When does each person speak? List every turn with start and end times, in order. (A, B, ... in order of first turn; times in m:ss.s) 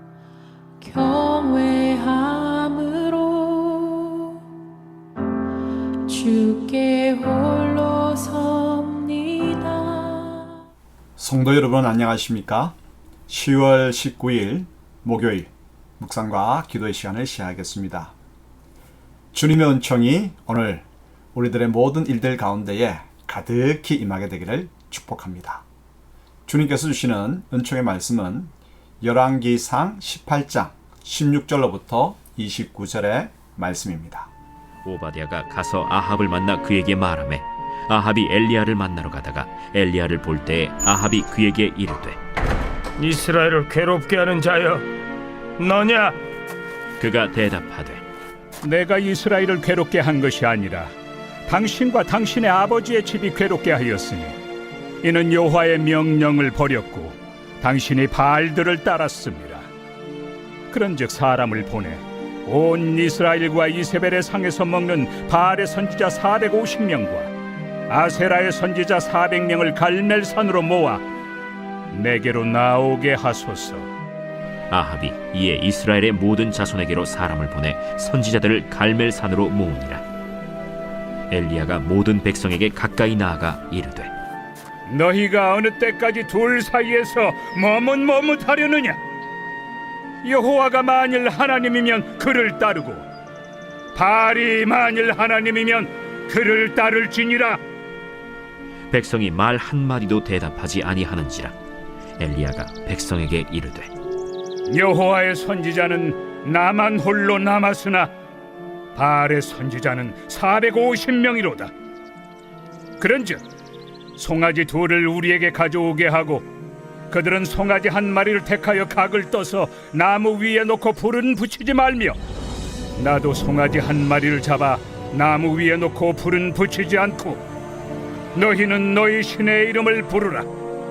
0:00.8-0:04.4 A
0:06.1-0:10.5 A
0:11.2-0:12.8 B
0:13.3-0:18.2 B
0:19.3-0:25.6 B
0:26.5-0:34.3 B
0:34.8-0:42.2 C
0:43.0-0:44.9 D
0:45.6-0:46.2 D
0:47.0-0:48.0 C
0:48.6-0:50.9 E
0:51.5-0:54.4 E
0:55.0-0:59.7 E
1:00.7-1:07.3 E
1:07.9-1:11.0 E
1:11.9-1:13.9 E
1:14.7-1:20.0 C
1:21.3-1:24.1 C
1:24.9-1:29.0 E
1:30.2-1:33.0 E
1:34.0-1:37.6 E
1:38.9-1:41.6 C
1:42.2-1:43.9 C
1:44.7-1:48.1 E
1:49.0-1:51.7 E
1:53.0-1:53.4 E
1:54.2-1:56.5 E
1:57.1-2:02.2 E
2:03.0-2:07.4 E
2:08.4-2:10.5 E